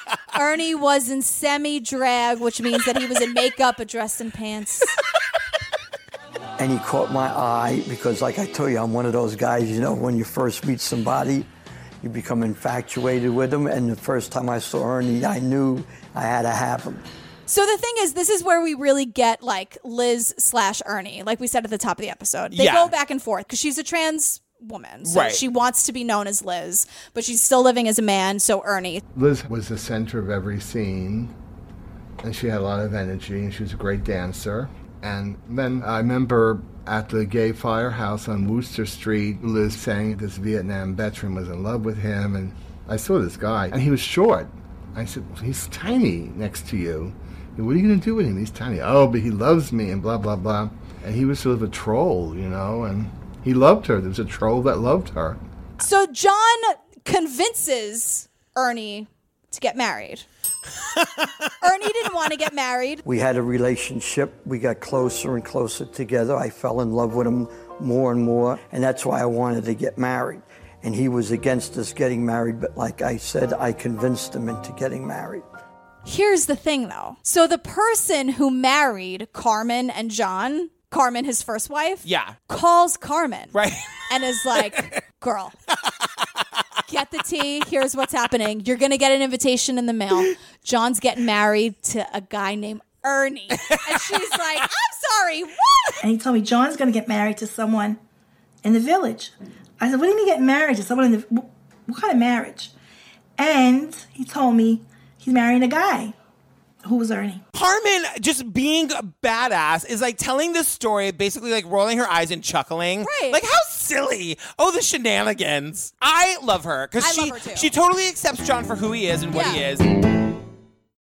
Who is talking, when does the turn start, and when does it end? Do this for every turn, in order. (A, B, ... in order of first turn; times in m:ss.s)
0:00.4-0:04.9 A
0:06.6-0:11.5 B
0:12.0-0:17.0 B
0:17.5-0:29.0 A
0:22.5-0:22.9 C
0:25.0-0:25.4 C
0:29.2-0:31.3 D
0:32.2-0:55.4 D
0:55.8-1:00.2 A
1:00.9-1:01.5 C
1:01.6-1:03.0 A
1:03.0-1:15.4 B
1:16.0-1:23.6 A
1:22.0-1:22.4 C
1:23.5-1:23.9 C
1:24.1-1:25.5 A
1:24.5-1:24.9 C
1:26.9-1:36.0 A
1:33.6-1:34.4 C
1:36.0-1:38.0 E
1:38.6-1:42.7 E
1:43.4-1:46.2 E
1:46.8-1:47.4 E
1:47.5-1:59.9 C
1:53.0-1:53.4 A
1:57.0-1:57.7 A
1:59.3-1:59.7 A